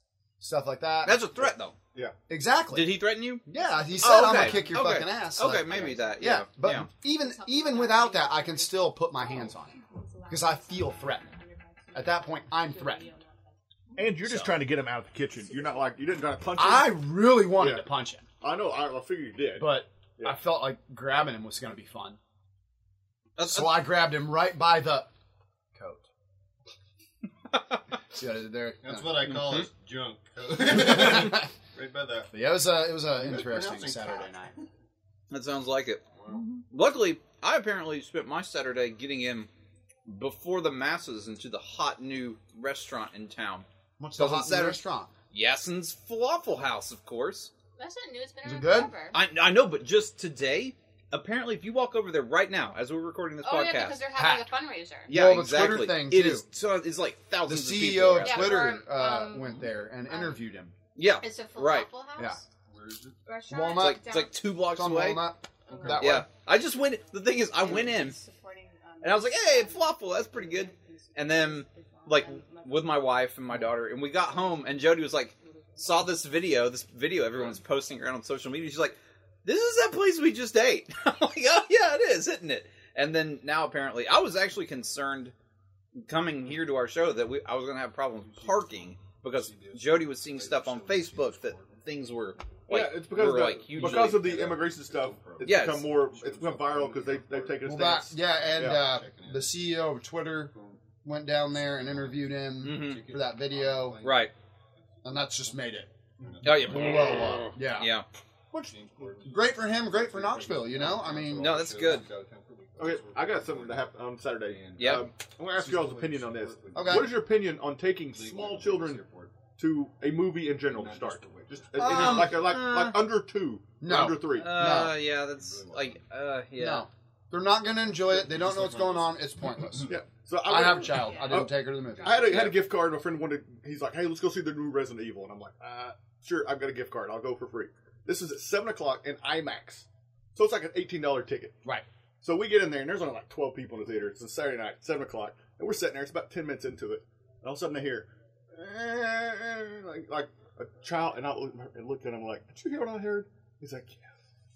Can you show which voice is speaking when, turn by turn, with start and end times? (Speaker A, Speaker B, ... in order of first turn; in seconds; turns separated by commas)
Speaker A: 0.4-1.3, Speaker B: 1.0-1.8, Speaker A: 2.3-11.3, Speaker B: 2.7-3.5, Speaker B: 4.0-6.9, Speaker C: 7.1-14.0, Speaker A: 11.9-13.1, Speaker D: 14.0-17.9, Speaker A: 14.2-14.5, Speaker C: 15.5-15.8, Speaker A: 16.6-18.2, Speaker D: 18.4-20.4, Speaker A: 19.6-22.2, Speaker B: 23.4-23.8, Speaker A: 23.4-25.1, Speaker A: 25.8-26.1, Speaker A: 28.1-29.2, Speaker E: 28.8-32.3, Speaker B: 29.3-29.7, Speaker A: 30.7-31.5, Speaker A: 32.3-34.6, Speaker E: 33.2-34.6, Speaker B: 35.3-39.5, Speaker E: 36.1-36.4, Speaker B: 40.0-43.7, Speaker A: 44.0-45.1, Speaker B: 44.2-44.8, Speaker B: 45.3-47.5, Speaker C: 47.8-49.2, Speaker A: 48.4-48.9, Speaker B: 49.1-54.0, Speaker C: 53.4-55.1, Speaker A: 54.1-54.5, Speaker A: 55.1-56.5, Speaker B: 55.1-58.6, Speaker A: 57.4-60.8, Speaker C: 58.2-60.4, Speaker B: 61.0-61.9, Speaker C: 61.2-62.4, Speaker E: 62.7-63.2, Speaker C: 63.2-64.5, Speaker A: 63.5-66.3, Speaker B: 63.7-65.3, Speaker C: 65.7-66.0, Speaker E: 65.7-66.0, Speaker B: 65.9-68.2, Speaker C: 67.4-73.2, Speaker B: 69.0-85.3, Speaker C: 75.3-76.2, Speaker B: 86.0-94.3, Speaker E: 88.2-88.8, Speaker E: 89.3-91.9, Speaker D: 92.7-98.8, Speaker E: 93.7-99.5, Speaker B: 95.5-95.9, Speaker A: 97.6-104.0, Speaker E: 101.6-104.3, Speaker B: 102.6-103.0, Speaker B: 104.0-104.3, Speaker A: 105.0-105.9, Speaker E: 106.2-107.3, Speaker B: 106.4-108.1, Speaker A: 106.5-107.9, Speaker E: 108.5-113.9, Speaker A: 109.2-111.6, Speaker B: 111.4-112.0, Speaker D: 112.8-119.0, Speaker E: 114.5-117.2, Speaker B: 114.8-115.1, Speaker A: 116.7-117.1, Speaker E: 118.1-119.3, Speaker D: 119.6-124.5, Speaker E: 120.7-122.3, Speaker A: 121.8-122.4, Speaker B: 121.8-123.0, Speaker A: 123.8-125.0, Speaker B: 124.3-126.9, Speaker E: 125.2-126.0, Speaker A: 126.6-132.6, Speaker E: 127.9-129.9, Speaker D: 129.9-141.6, Speaker C: 130.9-132.3, Speaker D: 142.2-154.1